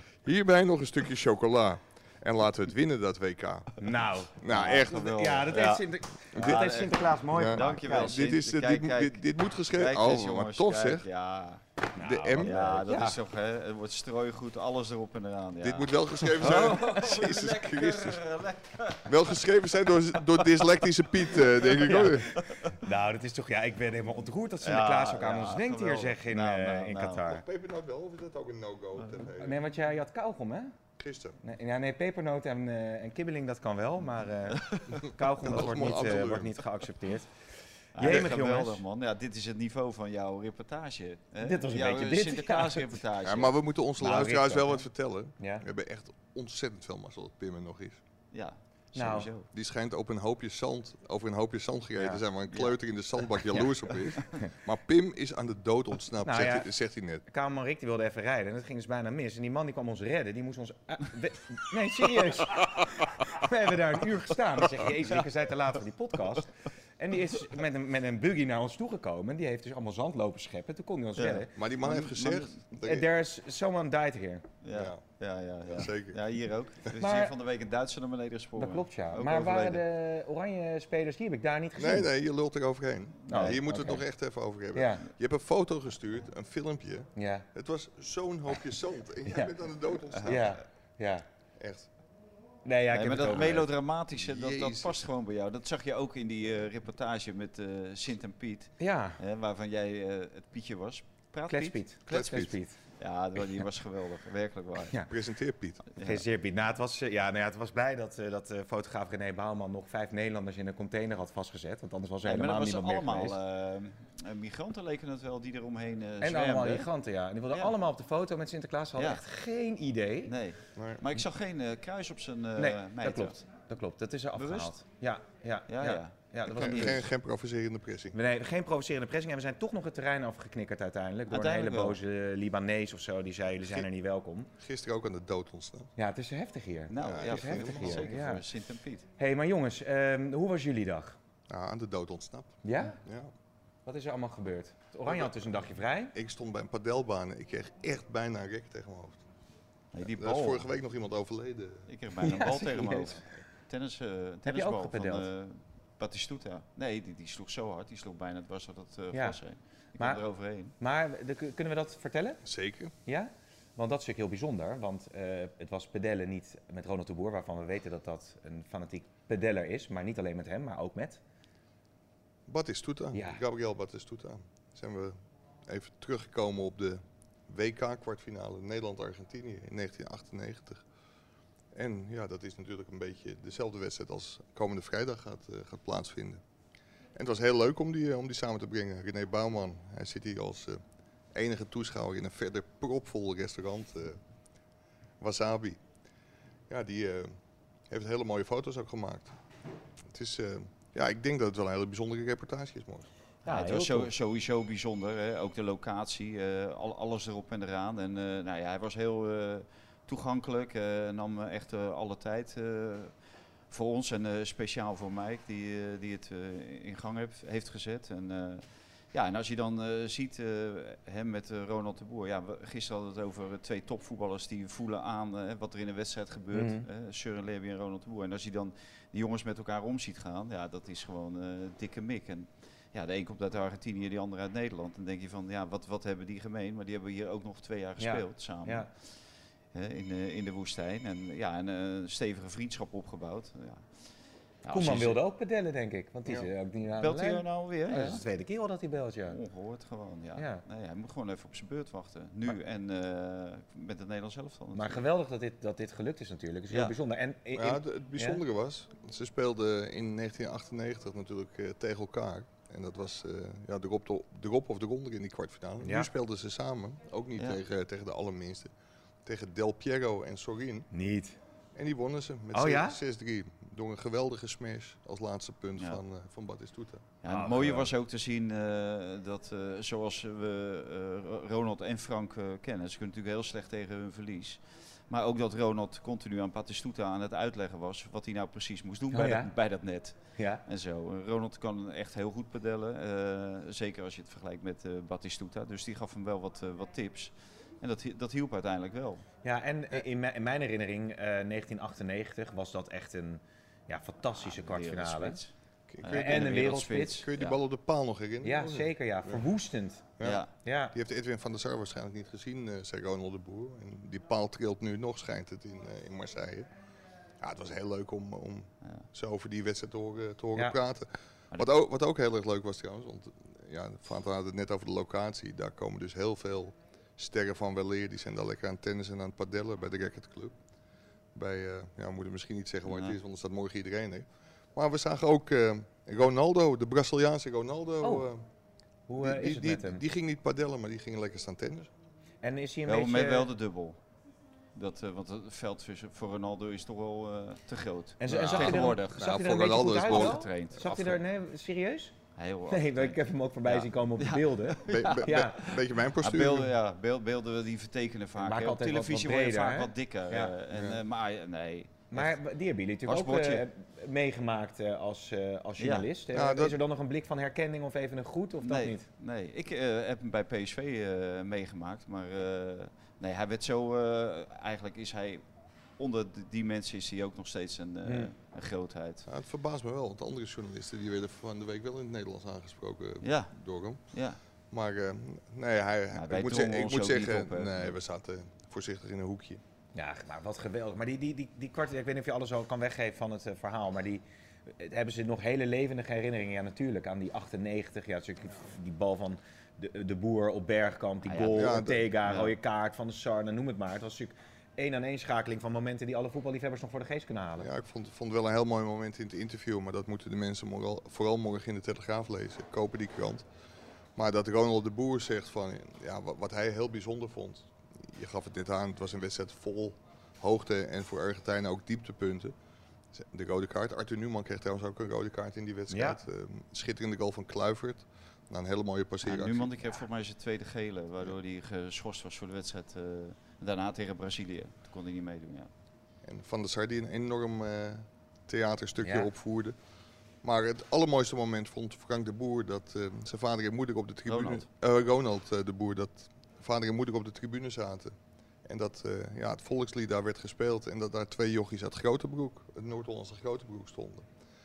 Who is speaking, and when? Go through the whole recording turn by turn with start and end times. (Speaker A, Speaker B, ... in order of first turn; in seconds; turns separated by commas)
Speaker A: 0.2-3.7, Speaker B: 3.8-8.2, Speaker A: 4.4-5.0, Speaker C: 4.5-11.6, Speaker A: 6.4-6.7, Speaker A: 7.3-11.1, Speaker B: 12.0-13.2, Speaker A: 12.0-12.8, Speaker C: 12.4-19.4, Speaker A: 15.6-18.2, Speaker B: 16.5-16.8, Speaker A: 19.1-22.3, Speaker C: 21.4-22.6, Speaker B: 21.8-27.4, Speaker C: 24.6-27.3, Speaker A: 27.2-29.6, Speaker B: 29.3-30.7, Speaker A: 31.0-31.4, Speaker B: 31.4-37.3, Speaker C: 34.5-35.0, Speaker A: 35.4-36.6, Speaker C: 37.9-43.5, Speaker B: 38.0-38.8, Speaker A: 38.0-38.4, Speaker B: 41.4-43.0, Speaker A: 43.2-48.0, Speaker B: 44.0-44.9, Speaker B: 45.4-45.6, Speaker C: 48.3-49.5, Speaker B: 49.0-49.3, Speaker A: 49.5-57.2, Speaker B: 52.0-52.2, Speaker C: 52.5-52.8, Speaker B: 53.4-53.7, Speaker B: 56.2-56.7, Speaker B: 57.2-71.5, Speaker C: 71.2-72.6, Speaker A: 71.6-73.1, Speaker B: 72.8-74.4, Speaker C: 74.6-79.8, Speaker A: 74.7-75.0, Speaker A: 75.7-76.2, Speaker B: 77.0-77.4, Speaker B: 78.6-82.1, Speaker A: 81.8-90.5, Speaker C: 83.3-83.6, Speaker B: 83.3-84.0, Speaker B: 84.7-85.1, Speaker B: 87.2-87.5, Speaker B: 89.2-89.5, Speaker C: 90.1-90.5, Speaker B: 90.2-91.2, Speaker A: 91.6-91.9, Speaker B: 92.7-93.7, Speaker C: 92.9-101.8, Speaker A: 94.2-95.0, Speaker B: 98.8-99.2, Speaker B: 101.5-102.8, Speaker A: 102.1-102.5, Speaker C: 103.0-105.0, Speaker B: 104.9-105.1, Speaker A: 105.1-105.8, Speaker C: 105.9-106.2, Speaker B: 106.0-113.4, Speaker C: 112.2-116.9, Speaker B: 116.2-120.3, Speaker C: 119.0-119.2, Speaker C: 120.3-123.4, Speaker A: 120.8-121.0, Speaker B: 122.6-127.1, Speaker C: 124.3-124.7, Speaker C: 125.7-127.0, Speaker A: 126.5-128.2, Speaker B: 128.1-134.5, Speaker C: 131.3-132.0, Speaker A: 134.6-135.9, Speaker B: 136.0-138.4, Speaker C: 136.9-139.1, Speaker A: 137.0-138.2, Speaker B: 139.2-141.2, Speaker A: 141.5-143.3, Speaker B: 142.6-143.0, Speaker B: 143.9-146.2, Speaker A: 145.1-145.5, Speaker A: 146.1-149.2, Speaker C: 149.9-150.7, Speaker A: 150.1-151.9, Speaker C: 151.9-160.8, Speaker B: 152.2-153.2, Speaker B: 154.4-155.3, Speaker B: 159.1-159.4, Speaker B: 160.0-160.2, Speaker B: 160.8-162.4, Speaker A: 162.5-162.9, Speaker B: 163.1-171.2, Speaker A: 172.5-175.2, Speaker B: 173.1-173.4, Speaker A: 175.7-180.8, Speaker A: 181.7-186.4, Speaker A: 187.2-190.8, Speaker A: 191.3-194.2, Speaker A: 195.2-195.8, Speaker A: 196.7-197.3, Speaker A: 197.9-199.3, Speaker A: 200.1-203.1, Speaker B: 203.4-204.1, Speaker C: 203.5-213.1, Speaker C: 213.7-238.9, Speaker B: 226.5-226.9, Speaker B: 238.0-238.9, Speaker C: 239.7-243.8, Speaker C: 244.6-245.2, Speaker B: 244.7-249.4, Speaker C: 246.9-248.2, Speaker C: 249.3-255.0, Speaker B: 250.4-250.6, Speaker B: 254.7-258.4, Speaker C: 256.7-257.0, Speaker A: 257.6-268.7, Speaker B: 265.8-266.1, Speaker C: 267.4-267.6, Speaker A: 269.2-270.9, Speaker B: 270.9-271.4, Speaker A: 271.7-277.1, Speaker B: 272.5-273.0, Speaker C: 277.2-299.2, Speaker B: 277.3-277.9, Speaker B: 289.1-289.5, Speaker B: 290.4-290.6, Speaker B: 299.4-305.4, Speaker C: 304.4-307.6, Speaker A: 305.9-309.4, Speaker B: 306.1-307.2, Speaker B: 308.4-311.0, Speaker A: 310.2-316.7, Speaker C: 310.2-310.5, Speaker A: 317.4-330.6, Speaker A: 331.3-338.4, Speaker C: 332.9-333.2, Speaker B: 338.0-338.3, Speaker B: 339.1-340.0, Speaker A: 339.2-341.9, Speaker B: 342.4-343.5, Speaker C: 342.9-344.0, Speaker C: 344.8-349.4, Speaker B: 348.2-352.1, Speaker A: 348.3-350.4, Speaker C: 350.0-351.2, Speaker C: 352.4-362.4, Speaker B: 352.7-355.8, Speaker A: 354.9-356.7, Speaker B: 358.4-360.5, Speaker A: 360.7-361.0, Speaker B: 362.1-369.1, Speaker C: 363.0-363.6, Speaker C: 365.8-366.1, Speaker A: 366.3-366.8, Speaker C: 368.6-375.4, Speaker C: 376.0-379.3, Speaker B: 378.1-378.3, Speaker A: 379.3-384.0, Speaker C: 383.2-383.5, Speaker C: 384.1-384.4, Speaker A: 384.7-389.6, Speaker C: 386.1-388.0, Speaker B: 389.9-407.7, Speaker C: 401.2-402.6, Speaker A: 401.5-402.1, Speaker A: 407.6-413.5, Speaker A: 414.2-422.5, Speaker A: 423.1-429.7, Speaker B: 425.9-426.2, Speaker C: 429.2-435.7, Speaker A: 436.2-439.8, Speaker B: 439.0-439.3, Speaker A: 440.4-454.3, Speaker C: 444.3-444.7